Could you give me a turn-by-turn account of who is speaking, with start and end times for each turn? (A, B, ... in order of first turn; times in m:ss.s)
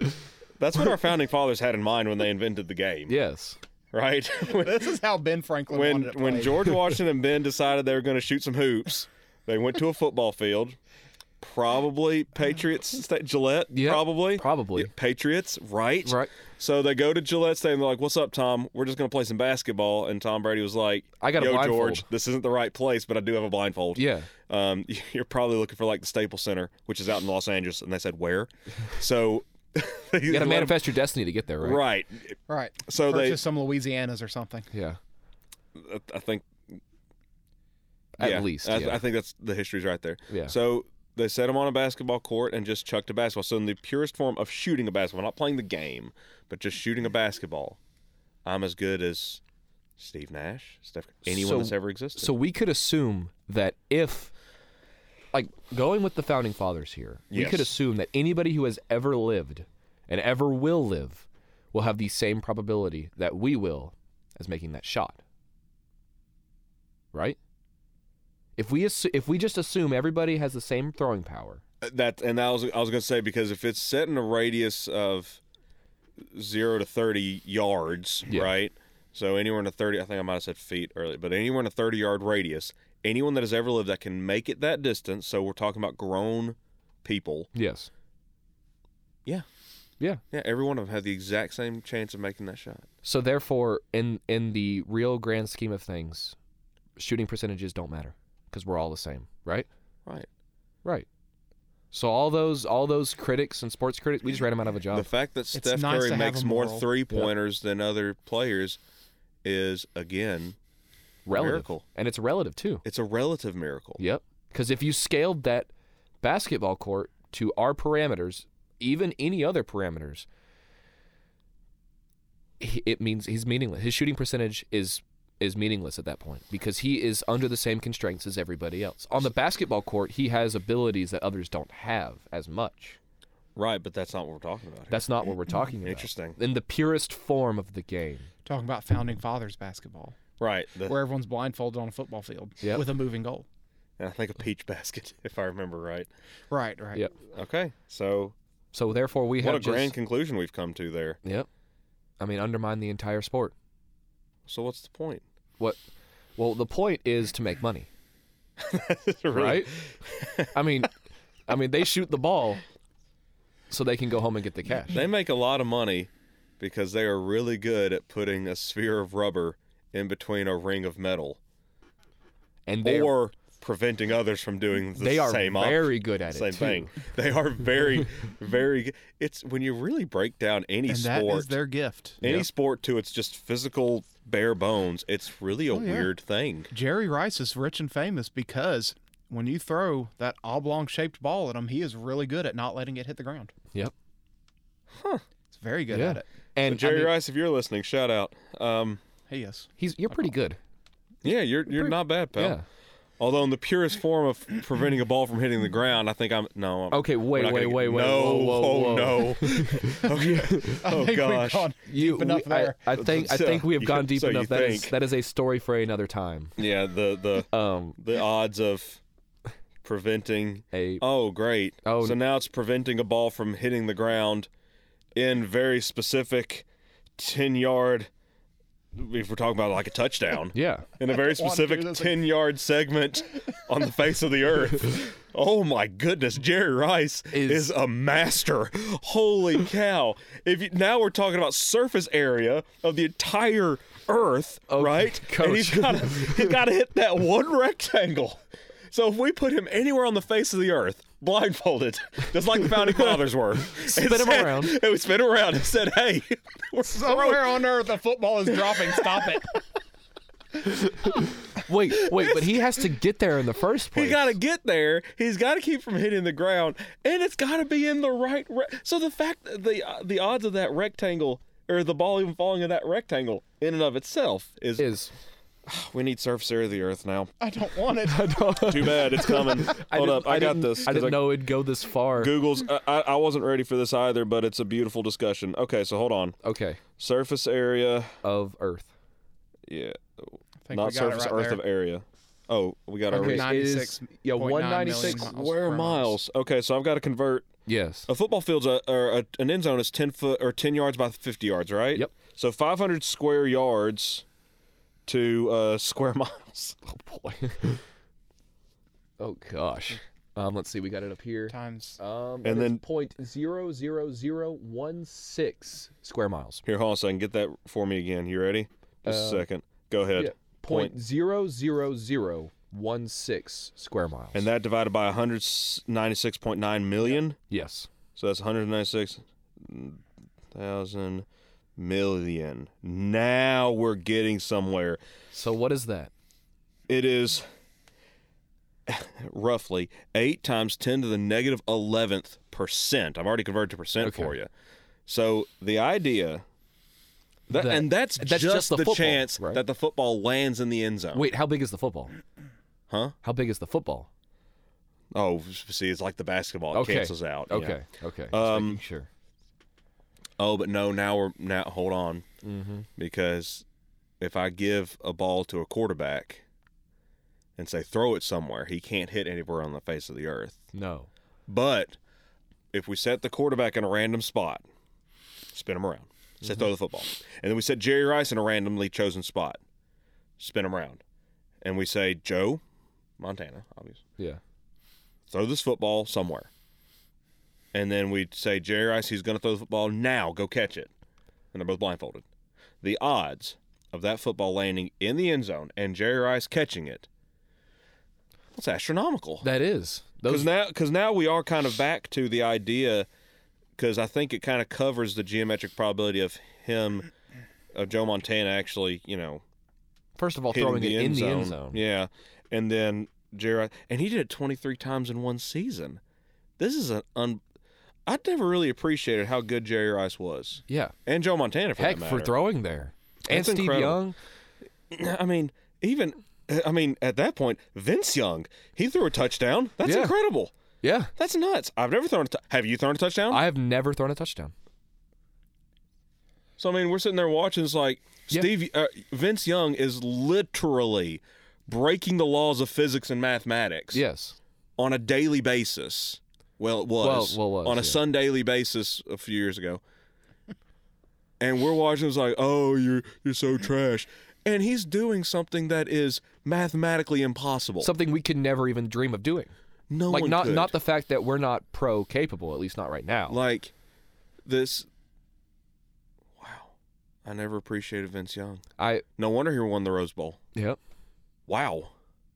0:00.6-0:03.1 A
0:03.1-0:03.6 B
0:03.9-0:04.9 A
0:04.4-0:06.8 C
0:05.7-0:10.8 A
0:11.4-0:30.9 A
0:13.7-0:14.9 B
0:16.0-0:16.3 B
0:21.2-0:22.0 B
0:24.0-0:24.3 B
0:30.3-0:31.8 B
0:31.6-0:33.4 A
0:32.5-0:34.7 C
0:34.7-0:35.0 B
0:35.7-0:36.8 A
0:38.2-0:39.0 B
0:38.2-0:47.8 A
0:40.3-0:40.5 B
0:48.4-0:49.4 A
0:50.0-0:52.4 A
0:51.3-0:54.3 B
0:55.3-1:05.2 B
0:57.3-0:57.7 A
1:08.6-1:11.6 B
1:11.8-1:15.4 A
1:16.2-1:27.5 A
1:27.5-1:27.9 B
1:30.3-1:32.9 A
1:33.0-1:36.4 B
1:37.0-1:39.7 B
1:41.9-1:45.1 B
1:44.9-1:48.8 A
1:45.5-1:46.9 C
1:49.4-1:50.6 A
1:51.2-1:52.8 B
1:51.3-1:51.8 A
1:52.8-1:54.0 A
1:54.0-1:55.7 B
1:56.2-2:00.3 B
2:02.6-2:13.0 B
2:13.6-2:15.0 A
2:14.9-2:18.3 B
2:15.8-2:16.4 A
2:18.4-2:20.2 C
2:20.4-2:21.0 A
2:20.8-2:23.4 C
2:24.0-2:26.1 A
2:26.5-2:27.1 C
2:27.3-2:28.3 A
2:28.7-2:29.9 B
2:29.4-2:31.2 A
2:32.2-2:33.5 B
2:34.4-2:35.2 A
2:36.4-2:37.9 B
2:38.6-2:40.5 A
2:39.3-2:39.8 B
2:40.5-2:40.9 B
2:41.5-2:42.6 B
2:43.7-2:45.0 B
2:44.9-2:51.4 A
2:52.7-2:53.1 B
2:52.8-3:01.5 A
2:55.0-2:56.9 B
3:00.9-3:02.2 C
3:02.2-3:06.7 A
3:05.7-3:06.1 C
3:06.7-3:13.5 C
3:14.9-3:15.2 A
3:15.5-3:16.2 C
3:15.9-3:17.1 B
3:16.6-3:19.0 A
3:19.3-3:19.7 C
3:19.8-3:20.6 B
3:21.2-3:22.6 A
3:21.8-3:22.6 B
3:23.2-3:31.7 A
3:26.9-3:30.9 B
3:30.7-3:33.0 C
3:31.8-3:36.6 B
3:32.9-3:35.0 A
3:36.6-3:39.0 A
3:37.5-3:38.0 B
3:39.8-3:44.5 A
3:40.7-3:41.0 B
3:41.8-3:42.2 B
3:45.1-3:46.6 A
3:47.2-3:48.1 A
3:48.9-4:08.4 A
3:50.5-3:50.9 B
3:51.0-3:52.2 C
3:57.3-3:57.7 B
4:04.7-4:06.5 B
4:08.9-4:17.6 A
4:13.7-4:14.8 B
4:16.8-4:19.5 C
4:18.5-4:19.3 A
4:20.7-4:24.4 B
4:23.9-4:34.9 A
4:34.8-4:35.1 B
4:35.6-4:37.3 A
4:37.4-4:39.1 C
4:38.0-4:42.4 B
4:38.6-4:41.4 A
4:42.2-4:46.4 A
4:46.4-4:46.8 B
4:47.0-4:48.1 A
4:48.2-4:48.9 B
4:49.7-4:53.5 A
4:50.6-4:51.6 C
4:53.1-4:56.2 C
4:53.1-4:55.3 B
4:54.9-4:57.5 A
4:57.6-4:58.1 B
4:58.1-5:04.2 A
5:05.0-5:06.8 A
5:06.8-5:07.8 B
5:09.2-5:16.6 B
5:11.5-5:12.0 C
5:12.4-5:12.8 A
5:16.6-5:20.9 A
5:19.0-5:19.4 B
5:20.1-5:24.4 B
5:24.3-5:27.4 A
5:27.5-5:27.9 B
5:28.2-5:31.2 A
5:31.8-5:35.0 A
5:35.3-5:36.1 B
5:36.9-5:37.5 A
5:38.9-5:44.5 A
5:44.0-5:44.3 B
5:45.0-5:46.4 A
5:47.5-5:49.6 B
5:47.5-5:51.2 A
5:51.1-5:52.2 B
5:52.9-5:53.1 A
5:53.2-5:54.1 B
5:55.1-5:57.8 A
5:56.7-5:59.1 B
5:58.3-5:58.8 A
6:00.4-6:02.2 A
6:02.4-6:02.9 B
6:03.0-6:03.6 A
6:04.2-6:06.4 A
6:07.6-6:10.7 A
6:10.7-6:11.1 B
6:11.5-6:12.0 A
6:12.7-6:14.6 A
6:15.5-6:19.6 A
6:20.4-6:21.0 A
6:21.6-6:22.6 A
6:23.2-6:24.0 A
6:25.3-6:26.5 A
6:27.7-6:30.9 A
6:31.5-6:32.2 A
6:32.8-6:37.1 A
6:38.5-6:39.5 A
6:39.4-6:40.5 B
6:40.3-6:43.1 A
6:43.8-6:47.1 A
6:47.7-6:49.4 A
6:50.2-6:51.8 B
6:50.5-6:56.0 A
6:56.6-6:57.4 A
6:58.0-7:02.3 A
7:00.7-7:00.9 B
7:01.8-7:04.2 B
7:03.3-7:04.0 A
7:04.9-7:10.5 A
7:09.8-7:10.2 B
7:10.8-7:11.1 B
7:11.2-7:13.4 A
7:13.3-7:14.5 B
7:16.6-7:24.0 A
7:23.9-7:24.4 B
7:24.8-7:29.8 A
7:27.0-7:28.0 B
7:31.4-7:37.9 A
7:37.8-7:39.5 B
7:39.9-7:40.8 A
7:40.1-7:43.4 B
7:43.3-7:43.7 A
7:44.4-7:44.9 A
7:46.4-7:46.7 A
7:47.2-7:48.6 A
7:48.8-7:49.0 B
7:49.2-7:50.4 A
7:51.5-7:51.9 A